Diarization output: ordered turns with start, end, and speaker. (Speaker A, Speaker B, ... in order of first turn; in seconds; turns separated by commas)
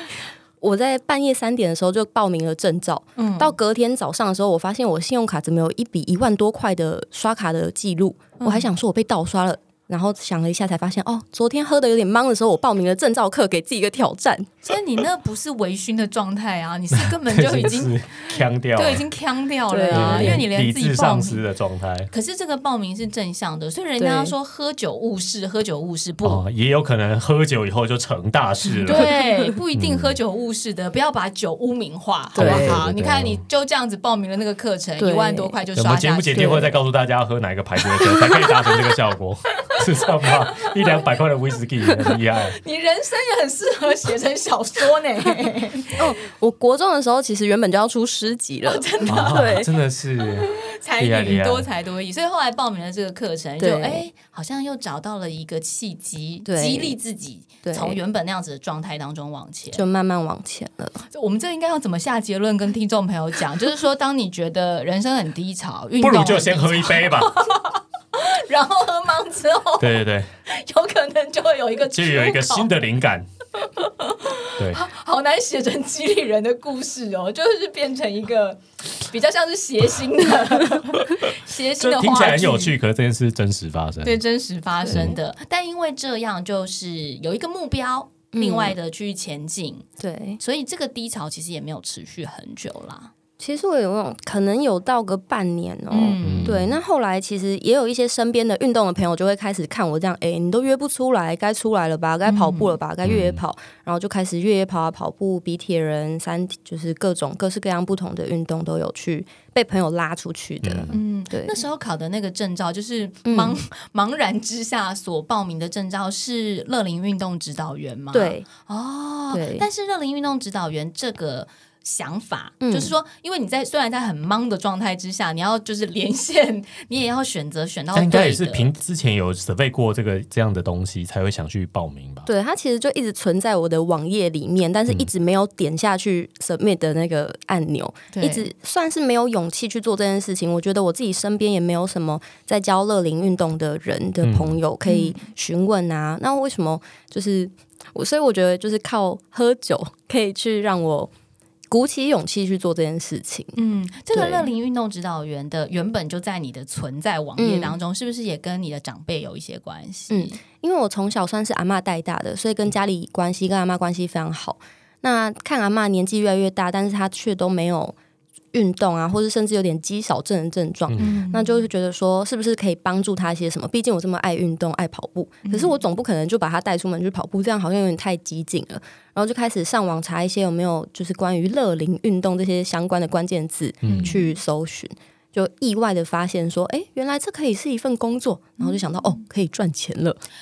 Speaker A: 0.6-14.5, Speaker B: 3.1-3.5, Speaker B: 8.4-8.7, Speaker B: 14.6-21.4, Speaker C: 16.9-19.1, Speaker A: 19.7-20.4, Speaker C: 19.9-22.1, Speaker B: 22.1-26.4, Speaker A: 24.0-24.3, Speaker C: 26.2-29.1, Speaker B: 28.9-36.7, Speaker A: 28.9-29.5, Speaker C: 29.7-30.2, Speaker A: 32.3-32.8, Speaker C: 32.4-33.4, Speaker A: 35.0-35.5, Speaker C: 35.7-42.6, Speaker A: 36.3-36.7, Speaker B: 38.4-38.8, Speaker B: 39.6-41.0, Speaker B: 42.5-46.0, Speaker A: 45.9-49.7, Speaker B: 48.6-49.6, Speaker C: 49.0-51.7, Speaker B: 50.2-59.8, Speaker A: 53.6-54.0, Speaker A: 56.5-57.0, Speaker A: 57.6-58.0, Speaker A: 59.7-61.0, Speaker B: 61.1-72.7, Speaker C: 66.0-67.3, Speaker C: 69.8-70.3, Speaker C: 71.9-73.3, Speaker B: 73.6-82.7, Speaker C: 74.6-74.8, Speaker C: 81.2-84.2, Speaker B: 84.0-89.9, Speaker C: 84.9-85.2, Speaker A: 88.3-88.8, Speaker A: 90.0-90.4, Speaker B: 90.4-93.1, Speaker A: 93.4-111.6, Speaker B: 95.9-96.6, Speaker C: 96.2-96.8, Speaker B: 102.2-102.8, Speaker C: 103.0-103.4, Speaker C: 110.6-111.0, Speaker B: 110.9-128.7, Speaker A: 113.2-113.6, Speaker A: 118.1-118.5, Speaker A: 119.3-119.7, Speaker A: 122.6-122.9, Speaker C: 127.9-132.3, Speaker A: 132.3-151.1, Speaker B: 138.1-138.5, Speaker C: 144.2-144.6, Speaker B: 144.8-145.2, Speaker A: 151.7-153.6, Speaker B: 153.6-160.3, Speaker A: 154.1-154.5, Speaker A: 157.4-157.8, Speaker A: 160.1-167.9, Speaker A: 168.5-190.2, Speaker C: 170.9-171.2, Speaker B: 171.0-171.6, Speaker B: 175.4-175.8, Speaker C: 183.8-184.2, Speaker B: 183.8-184.3, Speaker B: 188.6-189.2